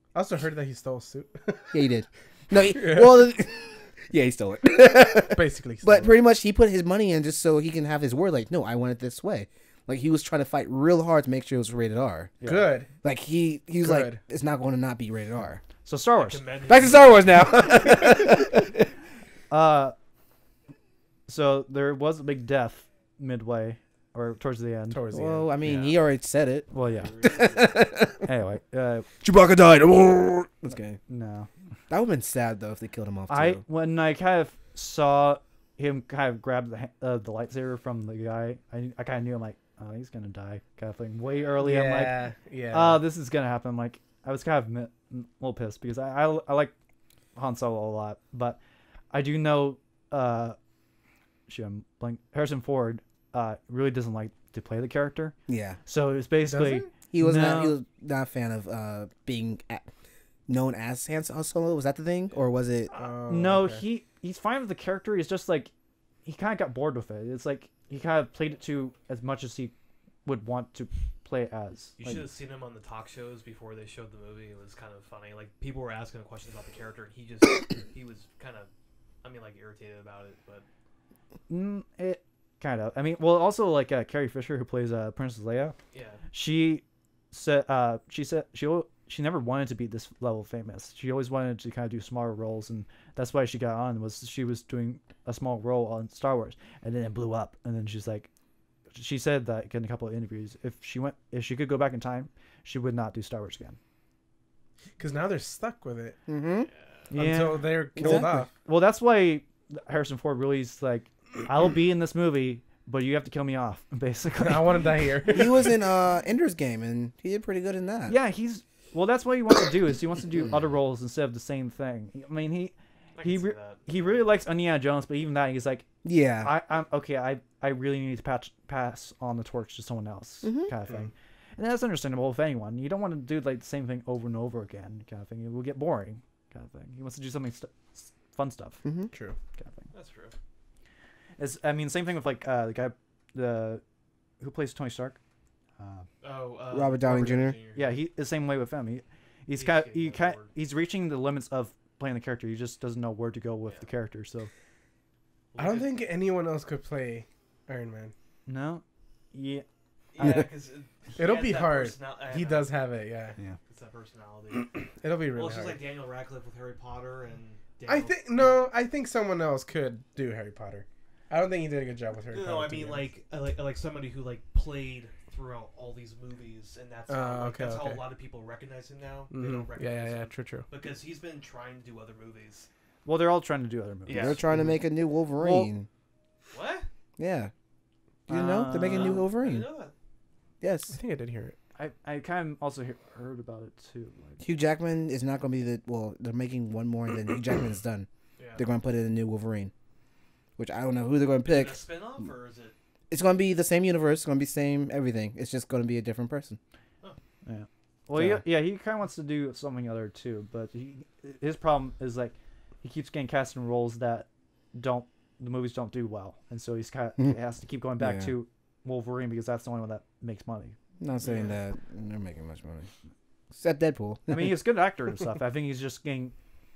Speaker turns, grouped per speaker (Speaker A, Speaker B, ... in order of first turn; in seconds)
Speaker A: 0.1-1.9, 2.5-3.3, 5.3-6.1, 12.4-12.9, 13.8-14.2, 24.9-25.5, 41.6-43.0, 56.5-56.9, 62.9-63.8, 105.0-106.2, 107.1-108.5, 114.4-115.7, 139.1-139.4, 155.6-158.1, 161.2-163.3, 165.0-165.8, 167.9-173.1, 177.1-178.0, 179.3-180.7, 190.9-191.6, 221.2-221.5
Speaker B: 1.7-12.4, 13.0-15.6, 16.7-18.9, 25.1-26.7, 27.2-28.2, 29.2-31.0, 31.9-33.6, 55.5-55.8, 57.1-59.9, 60.5-62.9, 106.3-106.7, 108.0-108.5, 115.3-118.2, 126.0-126.5, 130.4-130.7, 138.8-139.1, 146.7-147.6, 184.1-185.9, 187.2-187.5, 188.3-189.7, 190.6-190.9, 194.4-199.7, 200.6-201.8, 203.1-206.6, 208.1-208.4, 218.0-218.3, 221.0-222.9, 223.5-224.6
Speaker C: 12.4-12.7, 15.8-16.4, 19.5-19.9, 21.3-25.0, 26.7-27.1, 28.2-29.1, 31.1-31.5, 33.3-46.7, 47.4-48.6, 49.1-50.6, 51.5-57.8, 63.3-65.7, 66.2-69.7, 70.2-72.2, 81.5-85.8, 86.3-98.3, 98.9-103.8, 107.1-114.8, 118.1-125.9, 126.4-138.8, 139.6-139.9, 141.4-143.8, 144.4-145.2, 145.8-146.1, 147.7-154.5, 158.5-158.8, 159.3-159.6, 160.2-160.5, 183.1-184.4, 185.4-185.7, 188.3-189.2, 191.8-194.4, 207.4-220.8, 224.3-226.3
Speaker D: 16.1-17.7, 25.6-25.9, 26.8-27.8, 72.0-78.7, 79.2-80.6, 85.9-86.2, 123.1-124.2, 139.9-140.3, 146.2-148.0, 149.6-150.5, 155.5-156.0, 160.1-162.7, 163.7-168.7, 172.3-182.7, 184.1-184.4, 186.5-186.9, 188.8-189.9, 198.4-198.6, 201.5-202.7